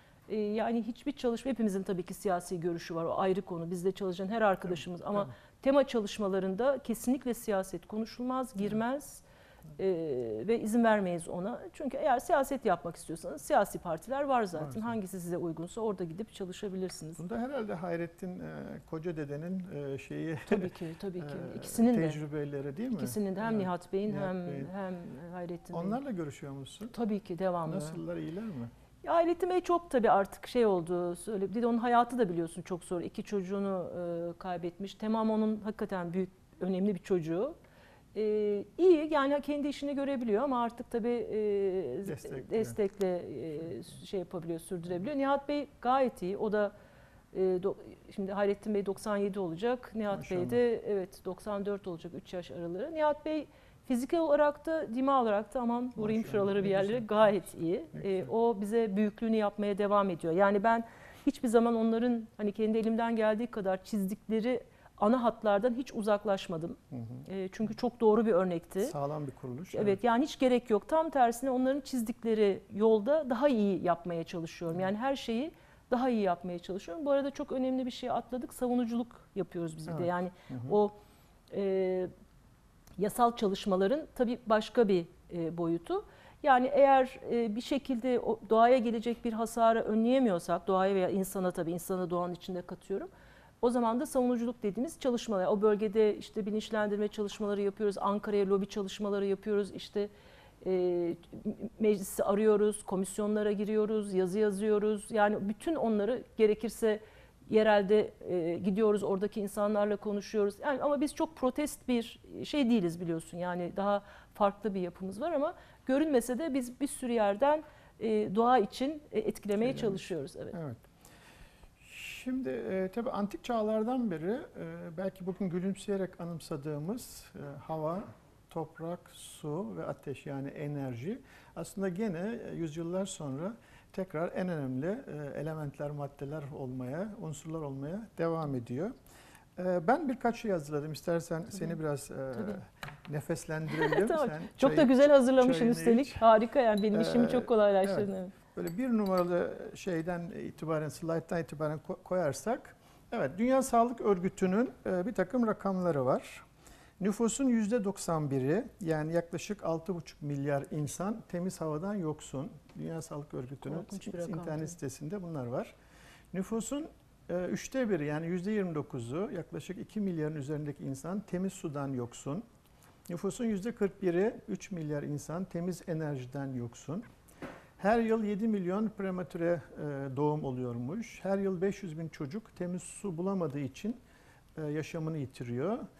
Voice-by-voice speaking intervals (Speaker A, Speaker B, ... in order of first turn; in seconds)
Speaker A: 0.3-9.2, 9.8-17.2, 20.5-22.2, 22.9-26.0, 26.9-28.0, 29.0-37.5, 38.1-46.7, 47.3-68.9, 69.7-81.0, 81.5-82.1, 83.0-93.1, 93.6-100.1, 100.6-120.5, 143.7-148.3, 163.6-164.8
Speaker B: 14.6-14.9, 17.2-24.7, 25.7-26.9, 27.6-28.7, 42.0-42.8, 50.1-50.6, 56.0-58.3, 66.9-67.2, 68.8-70.0, 79.9-80.8, 119.6-120.8, 121.8-138.9, 139.6-146.2, 146.9-156.4, 157.0-165.7, 166.3-172.4, 173.1-177.0, 177.8-184.0, 184.6-185.8